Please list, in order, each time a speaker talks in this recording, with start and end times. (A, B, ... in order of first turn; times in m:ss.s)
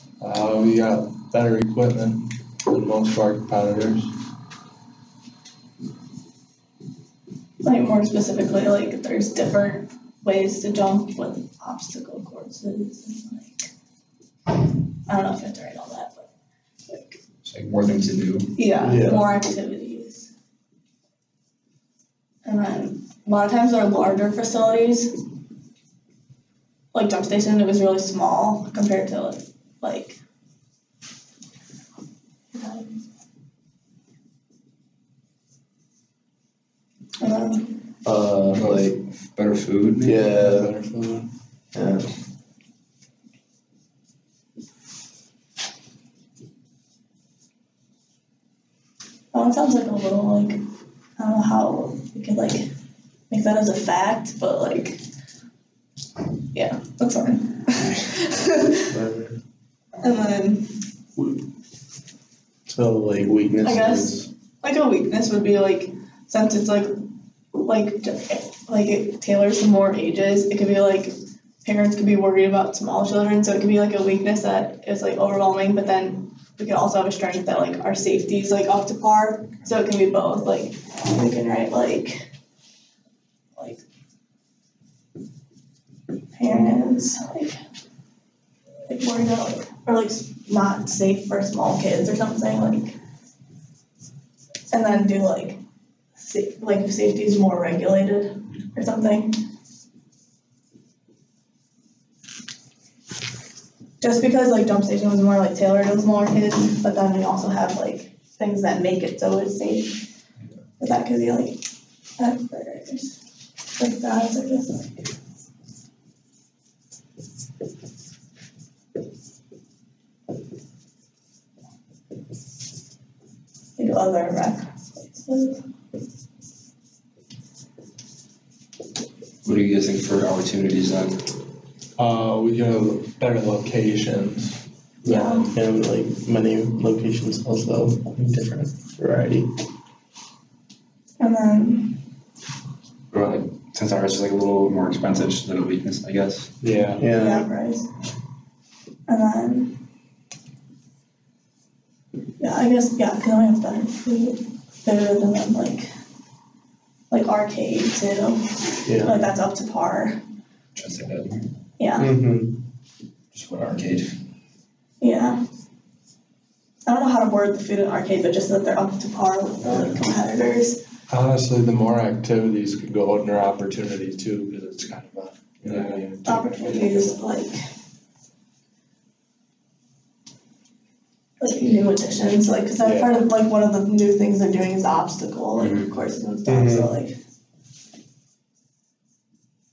0:00.2-0:04.1 A
0:07.6-0:13.7 B
0:15.1-0:16.3 B
0:16.9-0:17.2 B
0:17.4-0:18.5 C
0:18.6-0:20.3 B
0:18.8-0:19.2 D
0:22.4-0:25.1 B
0:26.9-0:30.2 B
0:32.5-0:32.9 B
0:37.2-0:37.7 B
0:38.1-0:38.6 D
0:38.5-0:40.2 C
0:38.6-0:38.8 A
0:40.0-0:40.8 D
0:40.3-0:41.2 A
0:41.7-0:42.1 D
0:49.3-0:50.6 B
0:51.2-0:52.7 B
0:53.3-0:55.0 B
0:56.5-0:58.9 B
0:58.9-0:59.4 D
1:00.0-1:00.8 B
1:02.7-1:04.3 D
1:03.6-1:06.9 B
1:07.5-1:22.3 B
1:23.6-1:23.8 B
1:26.3-1:27.6 B
1:28.9-1:33.0 B
1:34.7-1:35.6 B
1:36.2-1:39.4 B
1:44.0-1:50.0 B
1:50.8-1:51.6 B
1:52.2-1:53.2 B
1:53.8-1:54.9 B
2:03.8-2:05.6 B
2:09.4-2:11.2 C
2:12.0-2:14.6 A
2:15.0-2:15.5 B
2:15.0-2:19.5 D
2:21.2-2:22.0 B
2:23.1-2:26.9 C
2:26.6-2:27.0 A
2:27.0-2:27.5 D
2:27.2-2:27.9 B
2:29.1-2:29.8 B
2:32.4-2:35.9 B
2:37.1-2:40.2 B
2:38.9-2:39.1 D
2:40.8-2:41.4 C
2:41.8-2:42.1 B
2:42.0-2:42.6 D
2:43.3-2:44.1 C
2:45.0-2:45.4 B
2:46.9-2:50.8 B
2:51.1-2:57.2 A
2:55.7-2:56.0 C
2:56.2-2:57.6 B
3:01.4-3:07.2 B
3:02.8-3:03.1 A
3:05.6-3:05.9 C
3:06.5-3:06.9 D